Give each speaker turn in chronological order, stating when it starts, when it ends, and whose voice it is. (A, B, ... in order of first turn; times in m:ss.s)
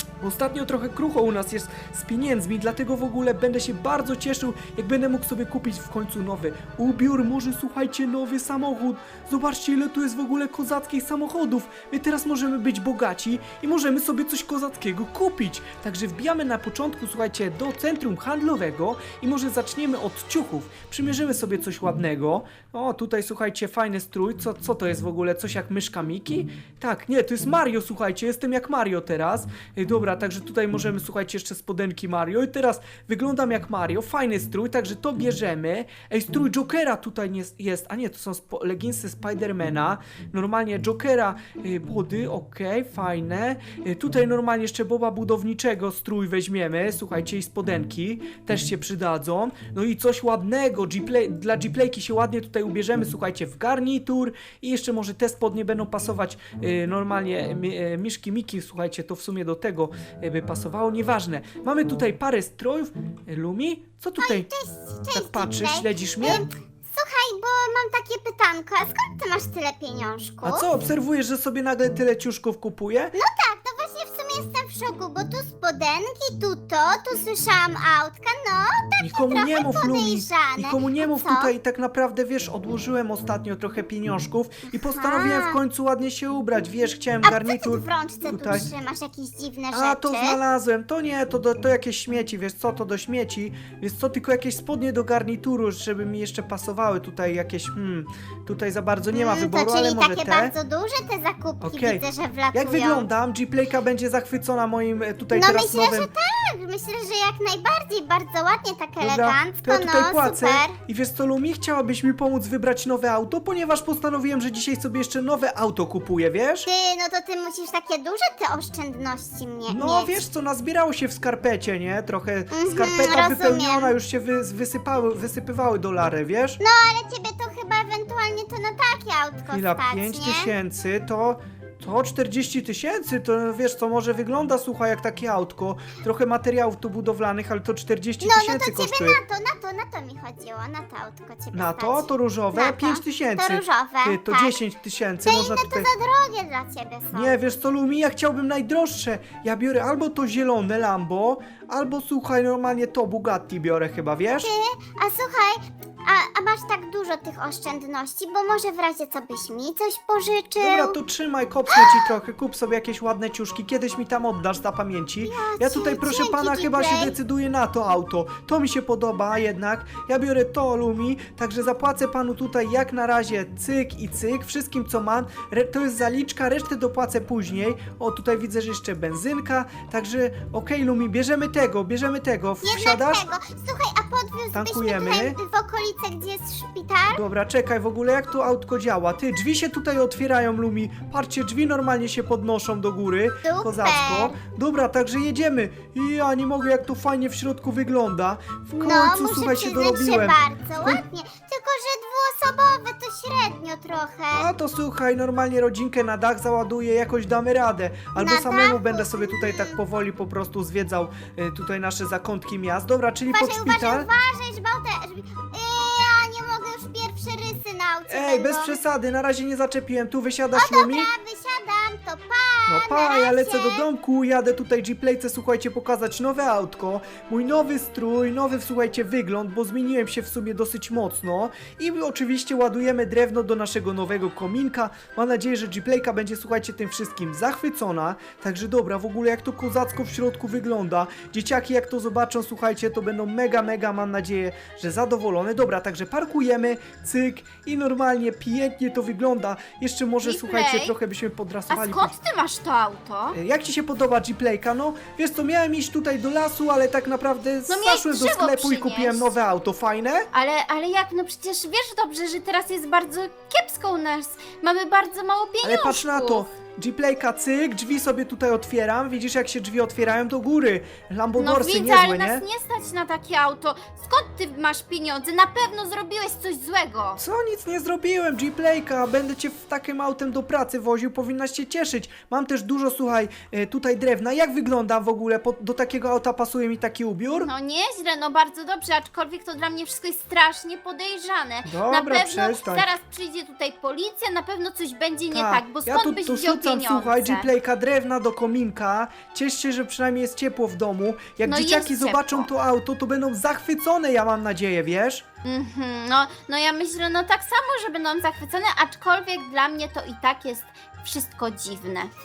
0:00.2-1:04.5 A
1:04.2-1:10.6 B
1:05.1-1:06.4 A
1:10.4-1:13.2 A
1:13.1-1:21.5 B
1:19.0-1:28.7 A
1:24.9-1:25.6 B
1:27.2-1:30.4 B
1:29.7-1:40.6 A
1:39.1-1:43.1 B
1:41.6-1:46.1 A
1:45.3-1:50.8 B
1:49.0-1:56.7 A
1:56.6-2:00.2 B
1:59.7-2:06.6 A
2:02.5-2:03.9 B
2:06.6-2:10.5 B
2:09.5-2:19.2 A
2:18.2-2:24.6 B
2:21.5-2:25.9 A
2:25.2-2:27.4 B
2:27.1-2:34.5 A
2:34.3-2:41.0 B
2:40.6-3:03.2 A
2:41.7-2:42.1 B
2:45.2-2:47.2 B
3:02.6-3:07.2 B
3:04.5-3:05.4 A
3:07.1-3:21.0 A
3:13.4-3:14.3 B
3:18.8-3:24.5 B
3:24.3-3:34.1 A
3:28.2-3:29.8 B
3:33.3-3:38.8 B
3:38.1-3:41.1 A
3:40.6-3:43.8 B
3:42.7-4:12.1 A
4:10.2-4:10.9 C
4:11.7-4:13.4 C
4:13.3-4:20.3 A
4:17.7-4:19.3 C
4:20.3-4:26.4 C
4:25.6-4:32.4 A
4:31.4-4:37.2 C
4:37.2-4:47.5 A
4:47.4-4:57.5 C
4:51.7-4:52.9 A
4:55.3-5:05.2 A
5:01.5-5:02.5 C
5:05.4-5:12.1 C